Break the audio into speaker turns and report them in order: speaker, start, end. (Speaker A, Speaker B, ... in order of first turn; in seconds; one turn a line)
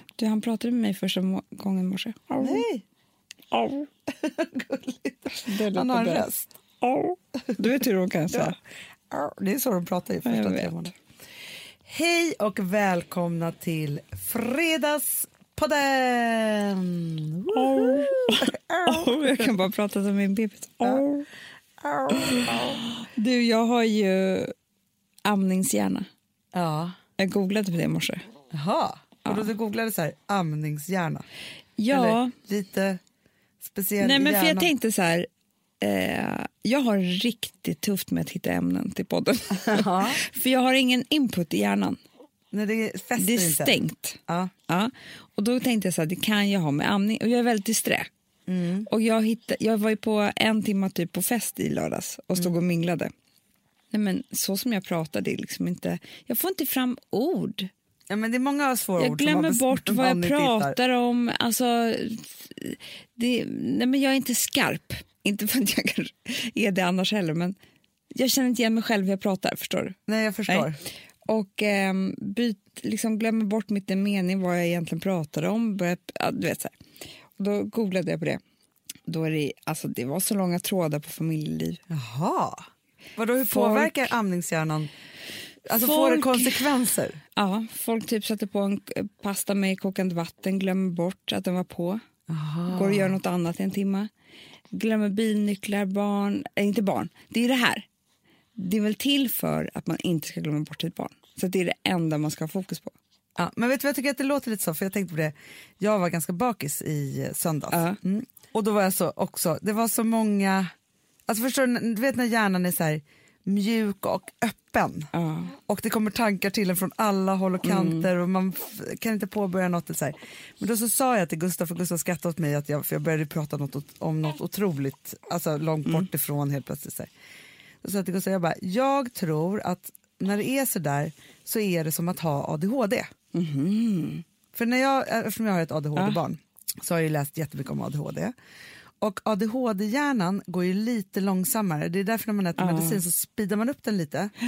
Speaker A: 0.2-2.6
Speaker B: 2.4-2.8
Speaker A: 3.5-3.9
Speaker B: 4.2-6.5
Speaker A: 5.3-6.3
Speaker A: 6.8-8.6
Speaker B: 9.1-10.9
Speaker A: 10.2-10.9
Speaker B: 11.9-19.4
Speaker A: 17.5-21.3
Speaker B: 21.8-22.8
Speaker A: 22.1-24.5
Speaker A: 25.2-26.1
Speaker B: 26.5-27.0
Speaker A: 27.2-28.2
Speaker B: 28.5-31.3
Speaker A: 31.8-32.3
Speaker B: 31.9-33.0
Speaker B: 33.6-34.7
Speaker A: 34.0-35.3
Speaker A: 35.8-42.0
Speaker B: 39.6-40.2
Speaker B: 42.5-44.5
Speaker A: 43.2-48.1
Speaker B: 48.5-48.9
Speaker A: 48.9-53.1
Speaker A: 53.9-57.7
Speaker B: 58.1-60.8
Speaker A: 59.0-67.6
Speaker A: 68.1-70.7
Speaker B: 70.1-70.8
Speaker A: 71.3-76.7
Speaker A: 77.4-78.4
Speaker A: 79.1-81.8
Speaker B: 81.9-84.9
Speaker A: 83.5-84.1
Speaker B: 85.7-87.2
Speaker A: 85.7-86.6
Speaker A: 87.4-92.0
Speaker B: 92.3-93.1
Speaker A: 92.7-94.1
Speaker A: 94.7-97.9
Speaker A: 98.6-102.9
Speaker B: 103.4-110.7
Speaker A: 107.7-108.0
Speaker B: 111.3-115.1
Speaker A: 115.1-115.5
Speaker B: 115.7-127.1
Speaker A: 117.6-118.1
Speaker B: 127.8-133.1
Speaker A: 133.3-134.2
Speaker B: 134.5-138.3
Speaker B: 139.0-144.3
Speaker A: 142.6-143.0